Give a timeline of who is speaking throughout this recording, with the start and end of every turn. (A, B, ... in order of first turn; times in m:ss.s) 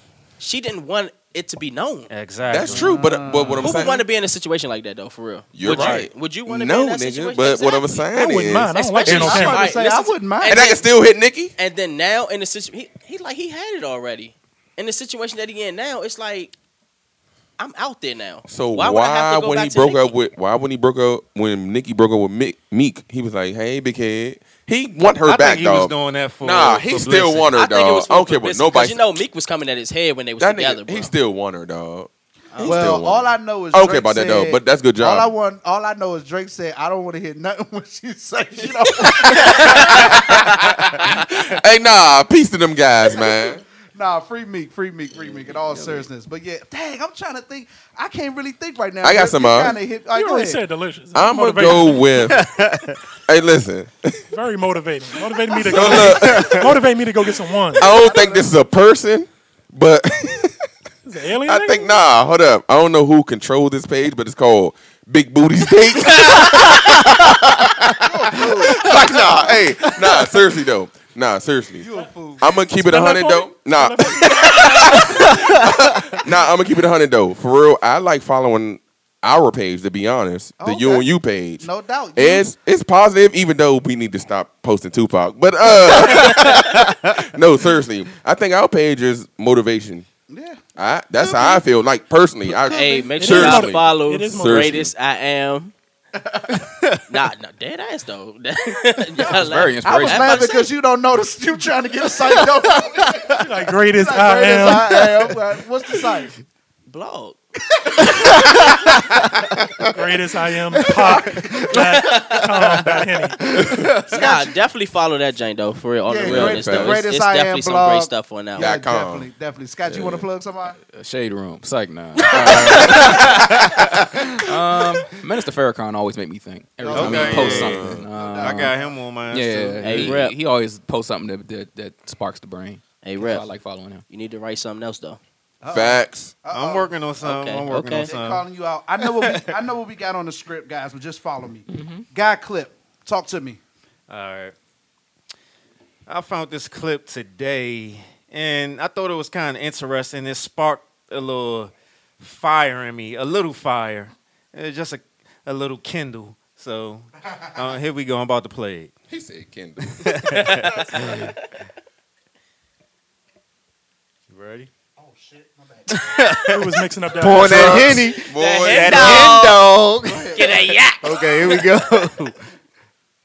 0:00.4-0:02.1 A
0:02.1-0:03.0 B
0:02.5-0:04.0 C
0:02.7-0:03.7 D
0:03.6-0:08.1 A
0:05.5-0:08.7 C
0:08.1-0:09.7 E
0:08.7-0:10.9 A
0:09.0-0:10.6 D
0:10.5-0:11.5 C
0:11.6-0:16.5 A
0:17.6-0:20.1 A
0:18.5-0:29.0 C
0:25.2-0:27.5 B
0:27.5-0:31.1 A
0:30.4-0:35.3 C
0:32.5-0:33.0 A
0:32.6-0:40.1 D
0:39.0-0:43.6 C
0:39.4-0:40.4 A
0:43.9-0:50.6 D
0:45.6-0:46.0 F
0:49.0-0:49.8 C
0:50.1-0:52.1 E
0:51.1-0:52.5 C
0:52.3-0:53.0 B
0:53.3-0:54.2 C
0:54.3-0:57.9 E
0:55.6-0:56.6 C
0:55.8-0:56.0 D
0:55.8-0:56.6 B
0:57.8-1:00.7 C
0:57.8-0:58.5 D
1:01.0-1:02.0 E
1:01.4-1:11.9 C
1:08.0-1:08.8 D
1:11.8-1:12.5 D
1:12.4-1:30.1 C
1:12.7-1:15.3 E
1:15.0-1:15.7 B
1:20.6-1:22.5 D
1:26.1-1:26.4 B
1:30.3-1:30.6 D
1:30.7-1:34.9 C
1:31.1-1:31.6 D
1:32.4-1:33.1 D
1:32.7-1:35.7 A
1:33.2-1:34.9 E
1:36.2-1:36.6 D
1:37.1-1:40.7 A
1:39.4-1:40.3 F
1:39.8-1:46.3 D
1:42.7-1:43.4 B
1:43.4-1:44.9 E
1:44.9-1:45.4 B
1:46.9-1:47.4 A
1:48.1-1:49.7 B
1:49.9-1:53.4 E
1:50.8-1:54.2 B
1:51.0-1:51.6 D
1:52.1-1:52.4 A
1:54.1-1:54.5 D
1:54.1-1:58.7 A
1:56.1-2:00.8 D
1:56.2-1:57.0 C
1:58.5-1:59.3 C
1:59.8-2:00.2 C
2:00.9-2:03.1 F
2:02.3-2:03.4 C
2:02.6-2:03.3 D
2:02.8-2:03.7 B
2:04.4-2:08.7 F
2:06.8-2:09.0 D
2:06.9-2:07.8 B
2:07.2-2:08.0 C
2:08.3-2:10.2 B
2:09.3-2:14.0 F
2:09.8-2:10.4 A
2:13.0-2:13.5 A
2:14.1-2:15.2 A
2:15.6-2:16.9 D
2:15.7-2:16.4 C
2:16.5-2:18.4 B
2:17.2-2:18.1 A
2:18.0-2:23.6 D
2:19.0-2:19.5 B
2:21.7-2:22.0 F
2:24.1-2:24.5 B
2:26.1-2:38.9 B
2:39.1-2:40.4 C
2:39.8-2:41.4 B
2:40.3-2:41.5 A
2:44.3-2:44.7 B
2:45.0-2:46.0 D
2:45.9-2:46.6 B
2:46.5-2:48.0 E
2:47.2-2:52.4 B
2:47.2-2:49.4 C
2:48.3-2:49.7 A
2:50.0-2:50.4 D
2:50.3-2:51.9 A